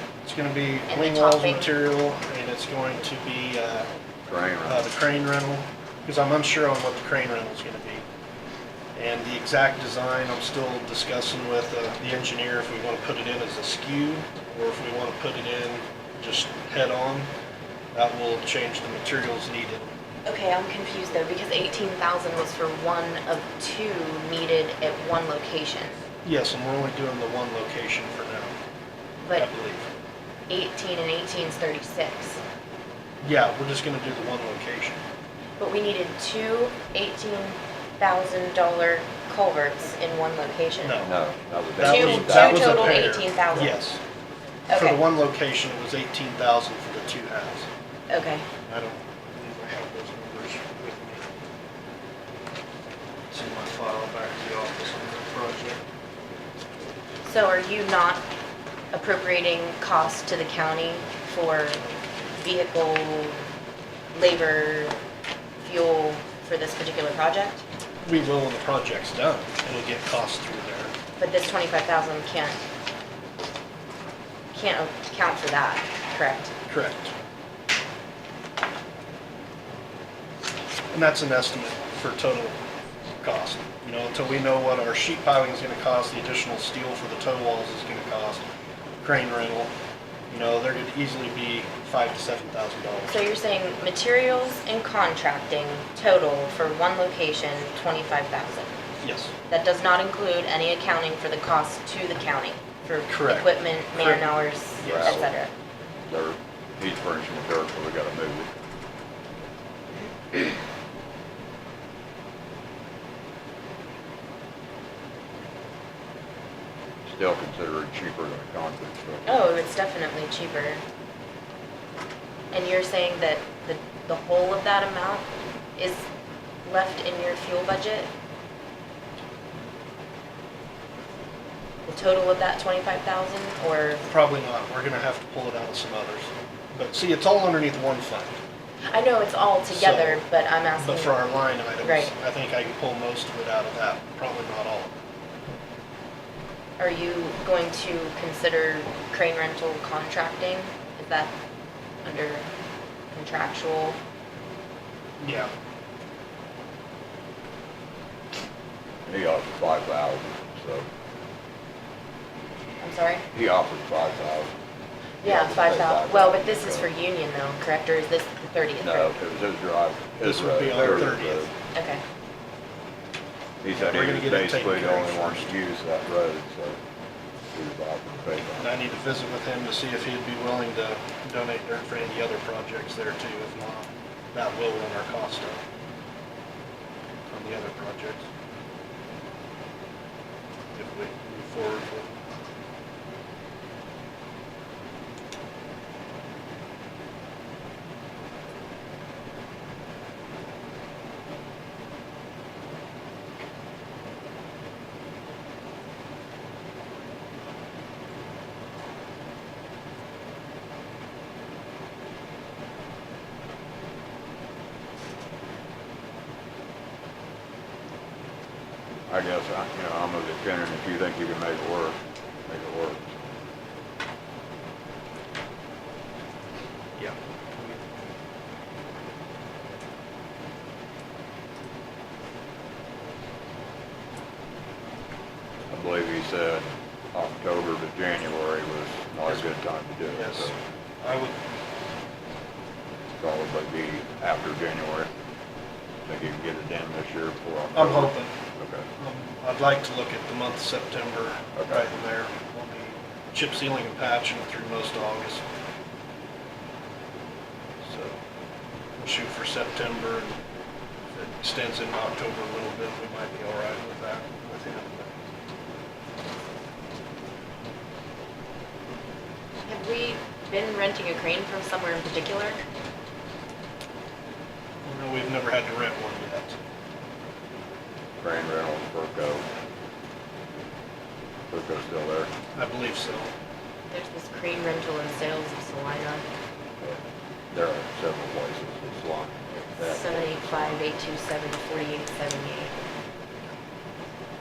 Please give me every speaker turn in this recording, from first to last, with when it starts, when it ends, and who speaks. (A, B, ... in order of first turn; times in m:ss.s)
0:00.2-0:03.9 A
0:00.9-0:01.7 B
0:04.3-0:04.9 C
0:04.6-0:08.0 A
0:09.0-0:17.3 A
0:17.9-0:20.0 A
0:20.3-0:26.0 B
0:26.2-0:28.5 A
0:29.2-0:29.5 B
0:29.3-0:29.9 A
0:30.5-0:32.4 B
0:33.2-0:35.0 A
0:35.6-0:41.0 B
0:40.8-0:41.2 A
0:41.0-0:43.0 C
0:41.8-0:44.0 A
0:41.8-0:43.8 B
0:44.7-0:45.0 B
0:44.7-0:47.7 A
0:48.1-0:48.4 B
0:48.7-0:51.2 A
0:53.3-0:55.8 A
0:57.2-0:58.2 B
0:58.9-1:01.8 B
1:02.4-1:03.4 B
1:04.1-1:05.0 B
1:05.6-1:07.6 B
1:08.0-1:10.9 A
1:11.2-1:12.6 B
1:14.5-1:16.5 B
1:16.7-1:17.1 A
1:20.9-1:22.5 A
1:23.2-1:28.4 A
1:29.0-1:29.7 A
1:30.3-1:33.2 A
1:33.0-1:38.7 B
1:39.0-1:39.3 A
1:39.5-1:45.5 B
1:43.1-1:45.2 A
1:44.8-1:45.3 C
1:46.1-1:48.5 C
1:57.0-1:59.4 C
1:59.2-2:00.8 B
2:02.5-2:06.0 B
2:06.6-2:08.1 B
2:11.8-2:14.1 B
2:14.1-2:18.4 A
2:18.9-2:21.3 B
2:19.7-2:20.2 A
2:20.8-2:24.9 A
2:21.8-2:22.1 B
2:26.8-2:31.3 B
2:32.0-2:32.4 B
2:33.1-2:34.0 B
2:35.2-2:35.5 A
2:39.0-2:40.9 C
2:42.8-2:43.2 B
2:43.3-2:44.5 C
2:45.2-2:49.2 B
2:45.2-2:46.9 C
2:48.8-2:51.5 C
2:50.2-2:51.5 A
2:51.7-2:52.0 B
2:53.6-2:56.8 C
2:53.7-2:55.6 A
2:57.5-2:58.7 C
2:58.5-3:05.6 A
3:07.3-3:08.2 A
3:10.8-3:12.1 A
3:39.1-3:43.3 C
3:47.0-3:47.8 A
3:55.7-4:00.6 C
4:00.1-4:00.5 A
4:01.0-4:01.4 A
4:03.2-4:05.1 C
4:06.1-4:08.9 C
4:07.8-4:08.3 A
4:09.0-4:15.4 A
4:11.5-4:11.8 C
4:17.8-4:18.2 A
4:19.0-4:20.4 A
4:21.1-4:25.2 A
4:29.7-4:32.6 B
4:34.8-4:36.6 A
4:38.2-4:39.5 C
4:41.5-4:42.3 C
4:42.6-4:43.3 A
4:43.9-4:46.2 B
4:47.5-4:50.8 C
4:49.8-4:52.8 B